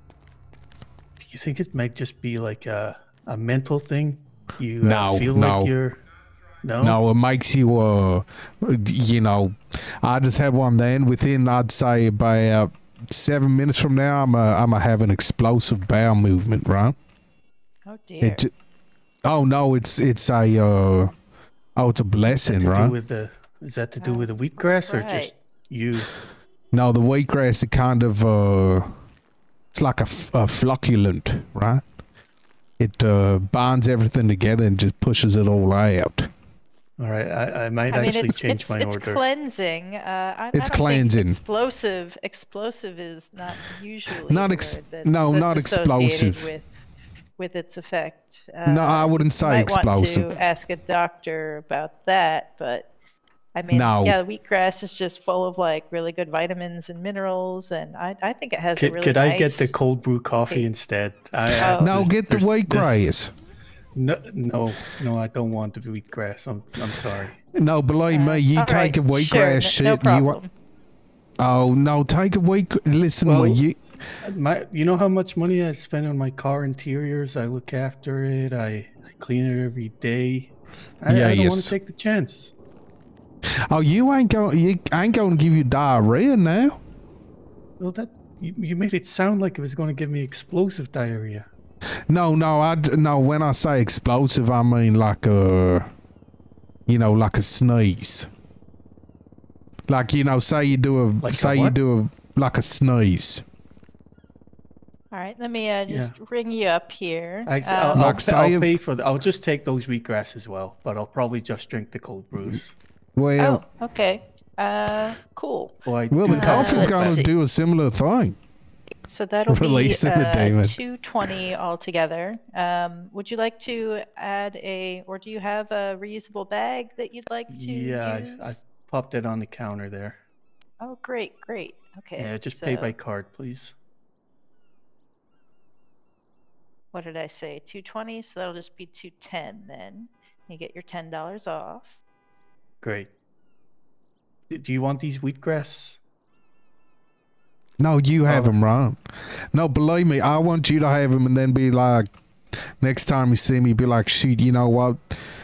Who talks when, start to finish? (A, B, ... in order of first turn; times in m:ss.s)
0:01.2-0:06.0 A
0:04.8-0:05.7 B
0:06.6-0:07.0 A
0:06.8-0:17.0 B
0:17.9-0:18.5 C
0:18.2-0:18.5 B
0:19.2-0:21.1 B
0:21.8-0:23.0 B
0:22.4-0:26.1 A
0:24.0-0:25.3 C
0:26.7-0:28.9 B
0:29.7-0:31.8 B
0:32.8-0:36.3 B
0:37.0-0:39.2 A
0:37.9-0:46.8 C
0:40.5-0:41.4 B
0:44.3-0:46.5 B
0:47.4-0:52.9 C
0:48.6-0:50.3 B
0:53.6-0:59.8 C
0:53.7-0:54.2 B
0:58.8-1:03.1 A
1:01.6-1:02.0 C
1:01.8-1:03.3 B
1:04.0-1:07.4 A
1:07.5-1:10.4 B
1:08.1-1:10.5 C
1:11.4-1:13.8 B
1:13.2-1:13.6 A
1:14.2-1:22.5 A
1:21.1-1:21.7 B
1:23.7-1:26.8 B
1:27.8-1:31.5 A
1:32.1-1:35.9 B
1:36.9-1:38.3 B
1:39.9-1:43.4 B
1:41.2-1:41.8 A
1:45.1-1:48.2 C
1:45.9-1:46.2 A
1:47.5-1:52.7 A
1:47.9-1:48.7 B
1:53.2-1:53.6 B
1:53.4-1:57.3 C
1:55.8-1:57.3 A
1:56.1-1:58.4 B
1:59.1-2:08.6 C
1:59.5-2:00.8 B
2:07.5-2:10.2 A
2:10.8-2:12.9 C
2:12.2-2:13.7 A
2:16.9-2:22.0 C
2:22.8-2:23.1 A
2:24.5-2:26.0 A
2:27.8-2:29.0 B
2:28.3-2:28.6 A
2:29.5-2:32.1 B
2:32.8-2:35.2 B